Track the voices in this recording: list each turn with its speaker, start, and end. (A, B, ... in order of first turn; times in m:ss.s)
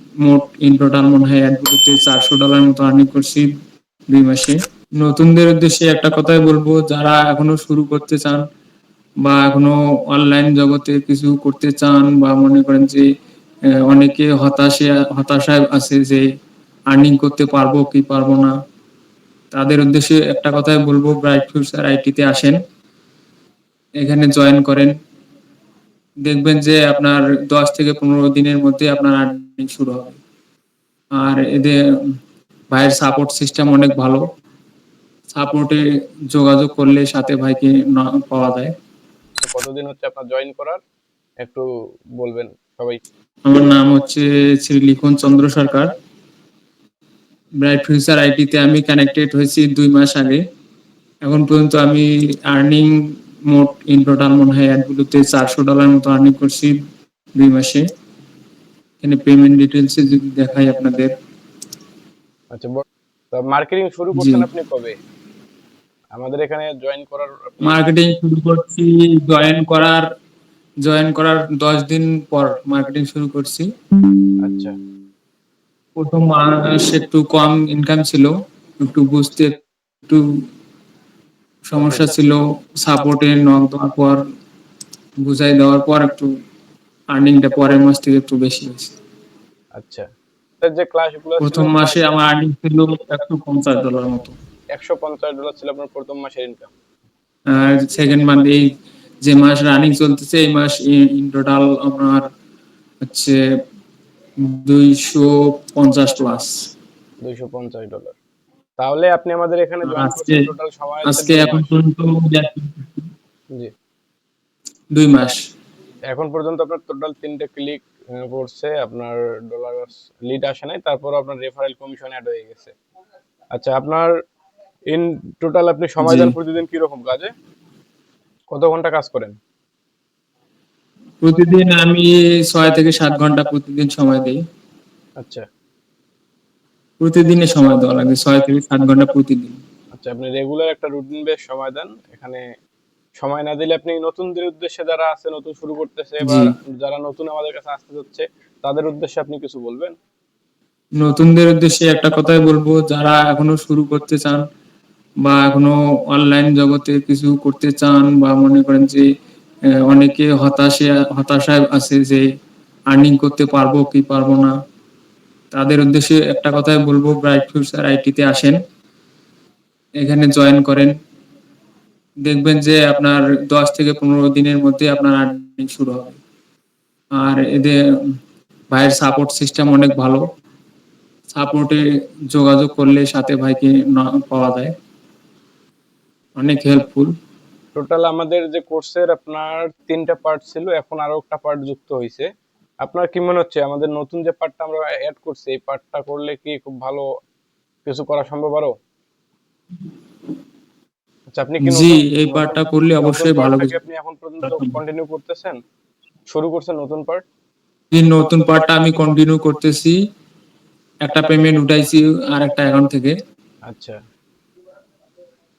0:00.2-0:03.5 A
0:04.1-0:08.4 A
0:09.2-0:13.1 A
0:13.9-0:16.2 A
0:16.9-0:18.5 A
0:19.5-0:22.6 A
0:24.0-0:24.9 A
0:26.2-0:30.2 A
0:31.1-0:31.8 A
0:32.7-0:34.2 A
0:35.4-0:38.7 A
0:39.4-0:40.8 B
0:42.2-0:43.0 B
0:43.5-0:45.9 A
0:47.6-0:50.4 A
0:51.2-0:53.0 A
0:53.5-0:56.8 A
0:57.4-0:57.9 A
0:59.0-1:01.1 A
1:02.5-1:05.0 B
1:04.2-1:04.4 A
1:06.1-1:07.9 B
1:07.6-1:10.0 A
1:10.8-1:13.7 A
1:14.5-1:14.8 B
1:16.0-1:20.2 A
1:21.7-1:24.2 A
1:21.8-1:22.2 B
1:25.2-1:26.3 A
1:27.1-1:29.0 A
1:29.8-1:30.1 B
1:30.6-1:32.1 B
1:31.4-1:34.3 A
1:34.7-1:36.7 B
1:37.5-1:38.7 A
1:39.2-1:42.2 A
1:43.0-1:43.4 A
1:44.4-1:46.5 A
1:47.2-1:48.2 B
1:48.8-1:51.8 B
1:49.8-1:50.4 A
1:51.0-1:53.1 A
1:54.9-1:55.4 A
1:56.1-2:02.8 B
2:03.6-2:04.1 B
2:04.9-2:07.3 B
2:06.0-2:06.4 A
2:08.5-2:09.4 B
2:11.2-2:14.4 A
2:17.0-2:19.6 A
2:20.0-2:22.4 B
2:23.2-2:29.9 B
2:26.3-2:26.5 A
2:31.0-2:34.4 A
2:35.2-2:39.1 A
2:39.8-2:42.2 A
2:42.9-2:44.5 A
2:45.5-2:48.6 A
2:50.0-2:50.9 A
2:52.2-2:56.2 A
2:57.1-2:57.8 A
2:58.7-3:00.2 A
3:01.4-3:04.7 A
3:06.4-3:07.1 A
3:07.8-3:12.3 B
3:12.8-3:17.1 B
3:17.9-3:18.7 B
3:21.3-3:25.6 B
3:21.6-3:23.8 A
3:24.4-3:24.8 A
3:26.3-3:27.2 B
3:27.9-3:30.0 A
3:31.1-3:33.2 A
3:33.7-3:34.0 B